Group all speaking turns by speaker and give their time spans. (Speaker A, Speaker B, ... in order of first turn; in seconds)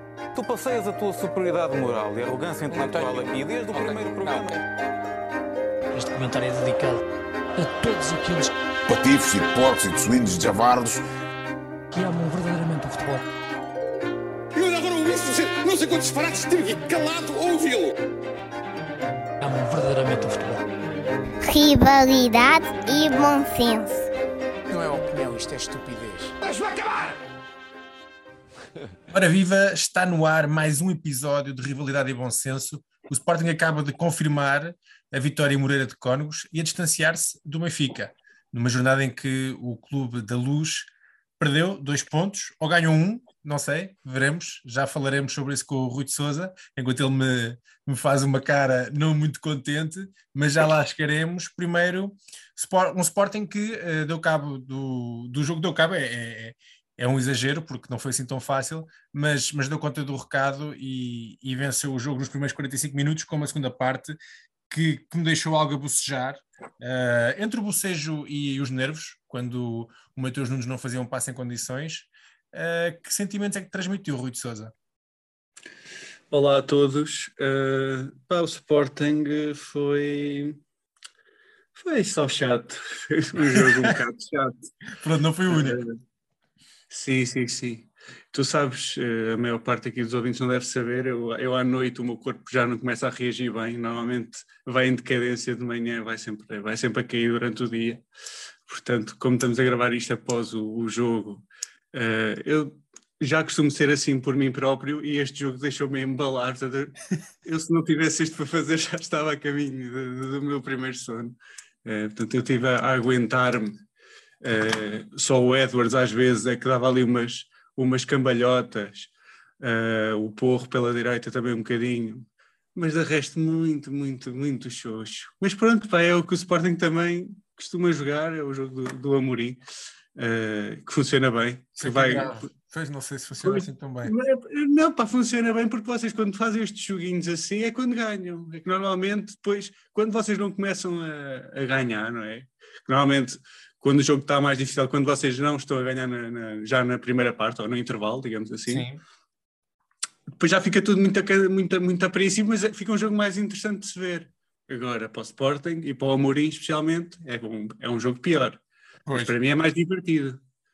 Speaker A: 0.3-4.6
Speaker B: 2.9-3.1, 5.9-7.0, 7.6-8.5, 11.9-13.2, 19.4-20.6
Speaker C: 8.9-11.0
Speaker D: 14.5-17.9, 24.7-27.1
Speaker E: 21.4-24.1
Speaker F: 29.1-64.2, 64.7-74.7, 83.5-83.9, 85.0-85.8, 131.8-134.1, 148.7-149.0, 159.1-159.3
Speaker G: 76.3-80.6, 81.8-84.7, 85.5-86.0, 86.9-98.0, 98.7-113.8, 114.4-119.1, 119.6-129.6, 130.2-132.5, 133.4-148.9, 150.4-158.6, 159.1-160.4